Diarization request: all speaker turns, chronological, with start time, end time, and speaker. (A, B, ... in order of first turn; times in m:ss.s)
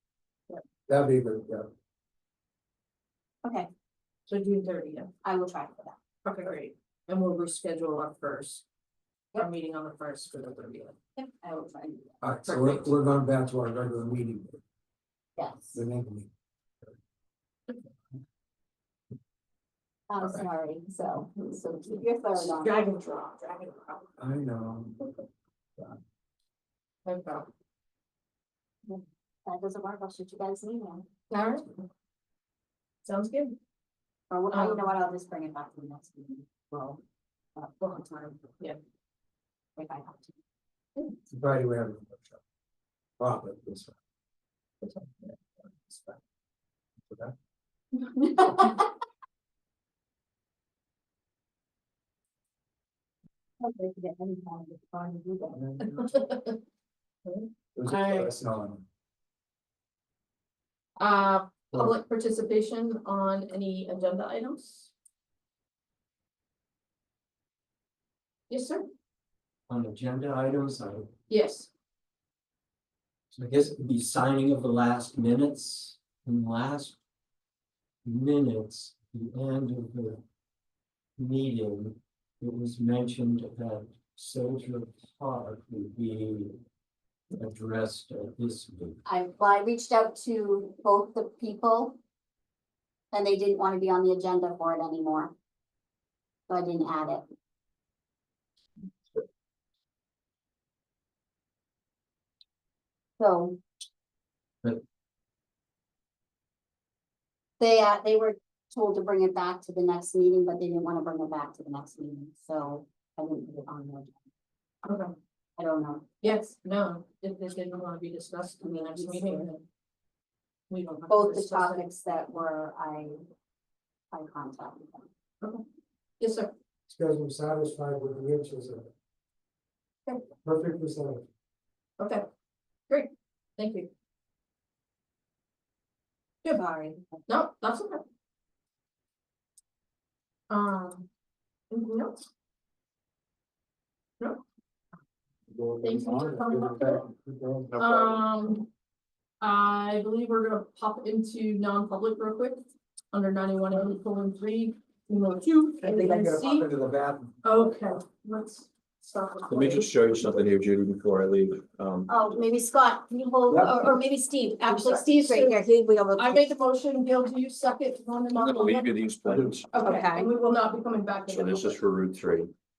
0:00.9-0:01.7 A
0:03.4-0:03.7 B
0:04.3-0:05.1 C
0:05.2-0:06.0 B
0:06.2-0:08.6 C
0:09.3-0:11.0 C
0:11.2-0:12.2 B
0:12.2-0:14.6 A
0:12.4-0:12.9 C
0:15.4-0:15.8 B
0:15.7-0:16.3 A
0:20.1-0:22.8 B
0:22.3-0:24.1 C
0:24.2-0:25.0 A
0:27.0-0:27.5 C
0:28.8-0:31.1 B
0:31.3-0:31.8 C
0:33.0-0:33.6 C
0:34.3-0:37.0 B
0:34.5-0:34.9 C
0:37.6-0:38.6 B
0:39.8-0:40.4 B
0:41.3-0:42.4 A
0:43.2-0:43.9 A
0:44.8-0:45.3 C
0:45.9-0:46.2 A
0:47.1-0:47.3 A
0:48.3-0:48.6 C
0:53.6-0:55.6 B
0:55.5-0:56.0 A
0:55.9-0:56.6 C
0:57.2-0:58.3 C
0:57.8-0:58.8 A
1:01.0-1:04.9 C
1:08.5-1:08.9 C
1:09.7-1:11.1 D
1:11.3-1:11.7 C
1:13.3-1:17.0 D
1:18.0-1:20.2 D
1:21.2-1:26.5 D
1:27.3-1:29.0 D
1:29.0-1:32.0 B
1:33.1-1:35.3 B
1:36.5-1:37.2 B
1:43.2-1:43.6 B
1:47.6-1:54.2 B
1:54.8-1:55.1 C
1:55.6-1:56.1 B
1:56.2-1:59.6 C
1:58.6-1:59.5 B
2:00.7-2:01.8 C
2:01.1-2:03.2 B
2:04.1-2:05.1 B
2:06.2-2:06.5 C
2:06.9-2:08.9 A
2:10.4-2:11.2 A
2:12.0-2:12.2 C
2:12.9-2:13.9 C
2:16.5-2:17.0 B
2:17.2-2:18.0 C
2:20.5-2:21.1 C
2:21.7-2:22.2 C
2:25.5-2:28.1 A
2:25.8-2:27.1 C
2:27.8-2:28.7 C
2:29.4-2:36.7 C
2:35.8-2:37.4 A
2:37.4-2:39.9 C
2:39.5-2:42.1 E
2:42.1-2:46.5 B
2:43.5-2:43.8 A
2:44.7-2:45.6 C
2:46.2-2:48.9 C
2:48.4-2:49.3 E
2:49.3-2:49.5 A
2:49.7-2:51.8 C
2:49.8-2:50.3 B
2:51.3-2:52.5 E